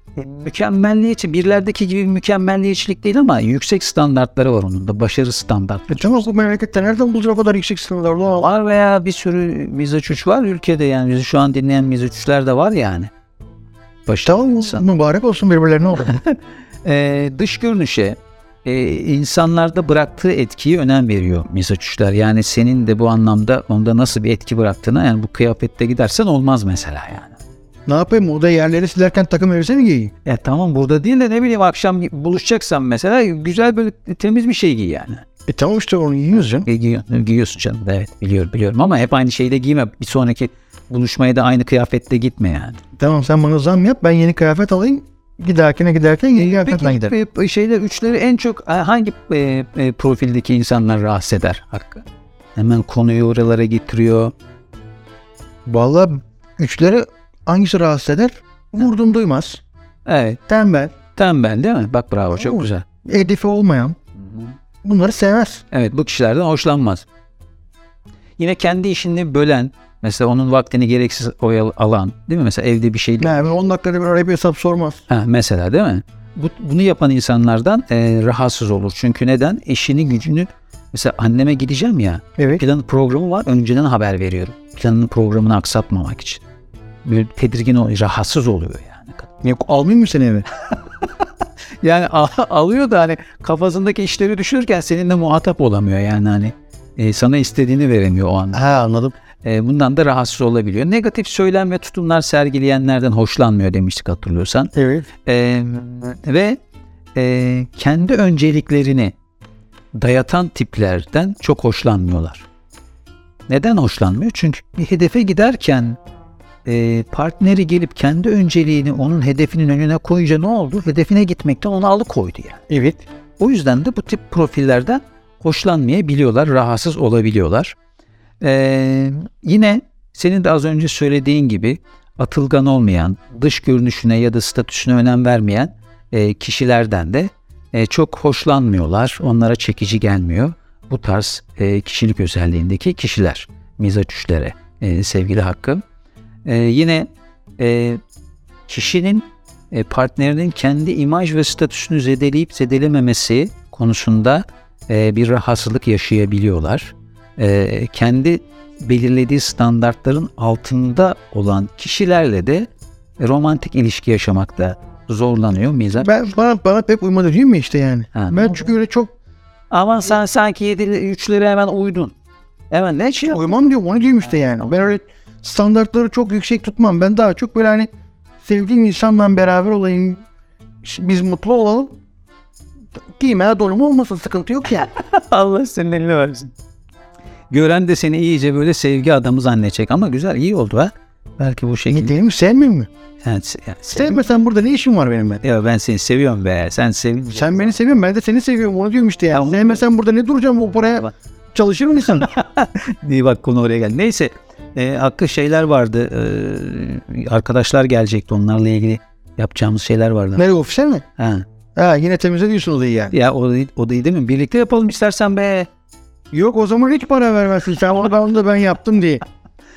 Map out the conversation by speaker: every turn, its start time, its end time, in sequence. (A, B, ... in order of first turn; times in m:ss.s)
0:00.2-0:06.2 A
0:05.9-0:08.5 B
0:08.4-0:13.1 A
0:14.0-0:14.8 A
0:14.2-0:16.2 B
0:16.0-0:27.4 A
0:27.9-0:30.1 B
0:30.2-0:35.2 A
0:35.5-0:36.6 B
0:36.4-0:42.8 A
0:43.0-0:47.1 B
0:46.4-0:54.3 A
0:55.6-0:59.6 B
1:00.0-1:00.4 A
1:00.5-1:00.9 B
1:01.1-1:02.8 A
1:02.3-1:04.0 B
1:04.2-1:04.5 A
1:04.8-1:05.6 B
1:05.7-1:07.0 A
1:08.4-1:13.3 A
1:13.2-1:15.0 B
1:15.1-1:26.4 A
1:22.4-1:22.6 B
1:27.0-1:29.3 A
1:29.4-1:30.4 B
1:31.8-1:38.6 A
1:38.5-1:39.1 B
1:39.4-1:44.7 A
1:44.7-1:45.1 B
1:45.2-1:46.6 A
1:47.1-1:49.1 A
1:49.9-1:52.4 A
1:53.5-1:56.0 A
1:56.6-2:02.6 A
2:02.7-2:03.0 B
2:03.4-2:07.7 A
2:08.4-2:25.8 A
2:26.4-2:28.0 A
2:28.7-2:46.1 A
2:46.0-2:49.1 B
2:48.1-2:48.6 A
2:49.7-2:52.1 A
2:52.7-2:53.5 A
2:53.3-2:57.9 B
2:58.4-3:00.2 B
3:00.8-3:01.9 B
3:03.2-3:04.9 B
3:04.8-3:06.5 A
3:07.5-3:12.1 A
3:11.9-3:12.9 B
3:13.2-3:14.2 A
3:13.9-3:15.4 B
3:15.4-3:17.7 A
3:17.3-3:22.3 B
3:19.3-3:19.8 A
3:22.1-3:30.4 A
3:30.4-3:31.0 B
3:31.2-3:31.4 A
3:31.8-3:33.1 B
3:33.1-3:35.7 A
3:36.3-3:39.2 B